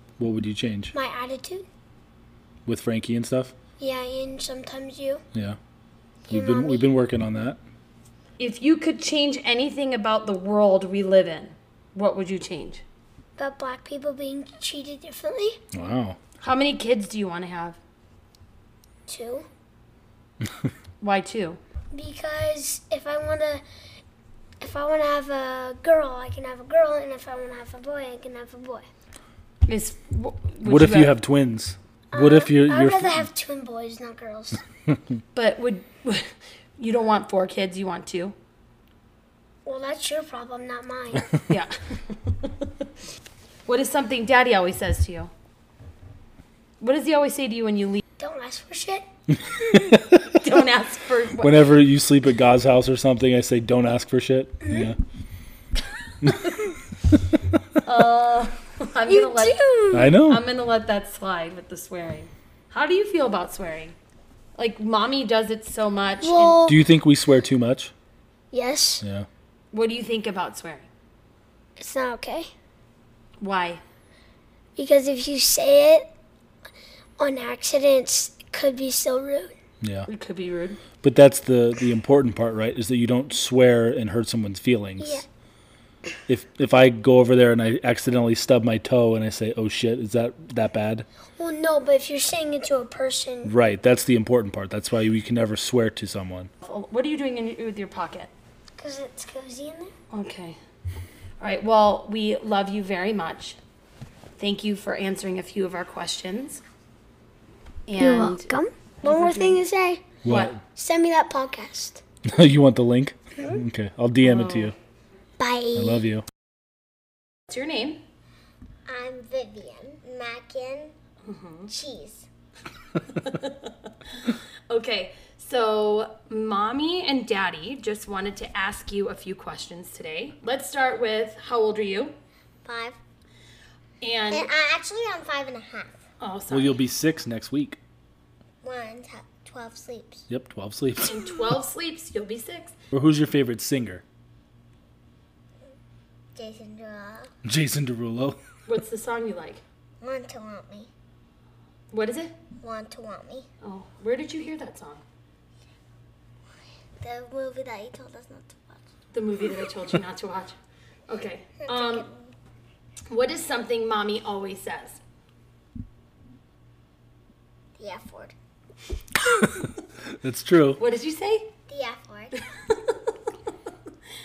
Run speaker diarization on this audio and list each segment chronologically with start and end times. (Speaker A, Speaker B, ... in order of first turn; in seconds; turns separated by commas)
Speaker A: 0.2-0.9, Speaker B: 0.9-1.7, Speaker A: 2.7-3.5, Speaker B: 3.8-5.2, Speaker B: 6.3-6.9, Speaker A: 6.3-7.6, Speaker C: 8.4-12.8, Speaker B: 13.4-15.6, Speaker A: 15.7-16.2, Speaker C: 16.4-17.8, Speaker B: 19.1-19.5, Speaker C: 21.0-21.6, Speaker B: 21.9-23.6, Speaker B: 24.6-28.9, Speaker C: 29.7-31.1, Speaker A: 30.7-33.3, Speaker B: 32.1-34.6, Speaker C: 35.4-38.4, Speaker B: 39.6-41.4, Speaker C: 41.5-42.5, Speaker C: 43.7-45.3, Speaker C: 46.8-48.0, Speaker B: 48.2-49.1, Speaker A: 49.3-50.4, Speaker C: 50.3-51.7, Speaker A: 51.4-55.0, Speaker A: 56.2-56.6, Speaker C: 56.3-56.7, Speaker A: 57.3-57.6, Speaker C: 57.8-59.6, Speaker B: 59.1-60.1, Speaker A: 59.9-60.5, Speaker C: 60.1-64.0, Speaker C: 64.6-66.6, Speaker B: 66.2-66.8, Speaker A: 66.7-67.9, Speaker B: 68.5-69.0, Speaker C: 69.7-70.9, Speaker B: 71.8-72.5, Speaker C: 73.4-73.8, Speaker B: 74.8-76.0, Speaker B: 77.2-79.5, Speaker A: 79.8-80.1, Speaker C: 80.1-80.8, Speaker A: 81.0-85.2, Speaker B: 85.0-85.3, Speaker A: 86.3-91.1, Speaker B: 91.4-93.5, Speaker A: 93.5-96.5, Speaker C: 96.6-98.3, Speaker B: 98.8-99.9, Speaker C: 100.1-100.6, Speaker C: 101.4-103.6, Speaker C: 104.4-106.6, Speaker C: 107.9-108.5, Speaker B: 108.0-110.1, Speaker C: 109.0-109.6, Speaker A: 110.2-110.6, Speaker C: 110.3-110.6, Speaker B: 110.7-112.0, Speaker A: 112.3-114.7, Speaker C: 114.2-114.7, Speaker B: 115.4-116.1, Speaker A: 115.8-116.2, Speaker C: 117.5-118.0, Speaker B: 118.9-120.9, Speaker C: 121.2-121.7, Speaker B: 121.7-122.3, Speaker C: 123.1-132.2, Speaker B: 132.7-133.0, Speaker C: 134.0-134.5, Speaker B: 134.3-136.0, Speaker C: 136.2-136.8, Speaker A: 136.5-137.8, Speaker B: 138.6-140.2, Speaker A: 140.3-141.5, Speaker C: 141.0-142.7, Speaker A: 142.9-144.0, Speaker B: 146.4-147.3, Speaker A: 147.4-148.4, Speaker C: 148.7-149.6, Speaker B: 150.0-150.9, Speaker C: 151.9-152.3, Speaker B: 152.6-153.4, Speaker C: 153.6-155.0, Speaker B: 157.0-158.8, Speaker C: 159.1-160.6, Speaker C: 161.1-162.1, Speaker B: 161.6-162.3, Speaker C: 163.1-165.0, Speaker B: 167.8-168.3, Speaker A: 169.2-170.8, Speaker C: 170.8-171.5, Speaker B: 171.7-172.4, Speaker C: 172.4-173.0